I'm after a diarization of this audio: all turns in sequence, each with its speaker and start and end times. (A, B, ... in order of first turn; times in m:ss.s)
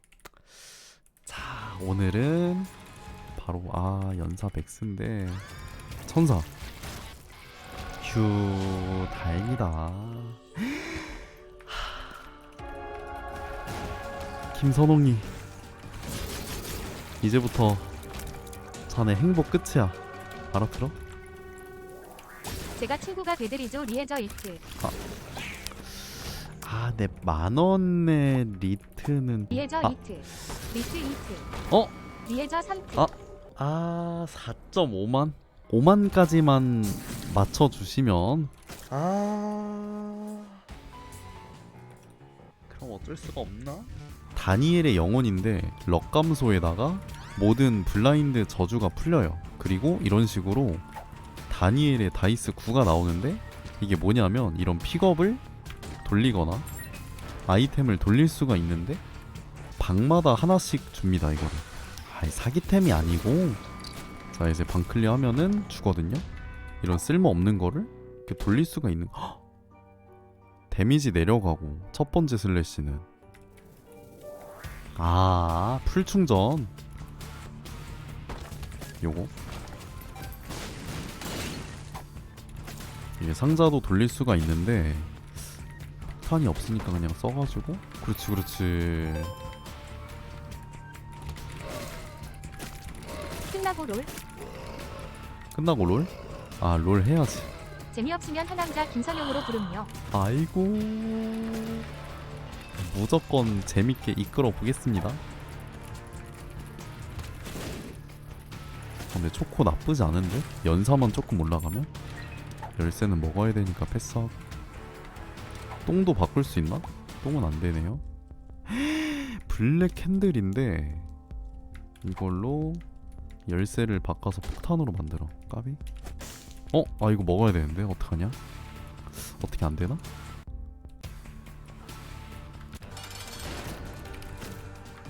0:01.2-0:02.7 A
0:03.4-0:05.5 A
0:06.0-0:06.5 A
0:08.0-0:12.3 A
0:14.5-0:15.3 A
0:17.2-0:17.9 A
0:18.9-0:20.0 A
0:20.5-0:21.0 A
0:22.8-0:24.6 B
0:25.8-0:30.0 A
0:29.5-0:31.5 B
0:32.3-0:33.0 B
0:33.0-0:40.6 A
0:42.7-0:50.9 A
0:51.5-0:55.4 A
0:56.0-0:56.7 A
0:57.5-0:59.0 A
0:59.8-1:03.6 A
1:04.3-1:06.2 A
1:06.8-1:09.4 A
1:10.7-1:13.1 A
1:15.0-1:16.7 A
1:19.0-1:19.3 A
1:23.2-1:25.2 A
1:26.2-1:29.3 A
1:33.4-1:34.1 B
1:35.5-1:37.5 A
1:37.9-1:39.9 B
1:40.1-1:41.8 A
1:42.8-1:45.2 A
1:49.1-1:51.9 A
1:52.8-1:54.4 A
1:55.8-1:58.0 A
1:58.7-2:01.1 A
2:02.0-2:02.8 A
2:03.5-2:05.8 A
2:06.7-2:08.4 A
2:09.1-2:10.0 A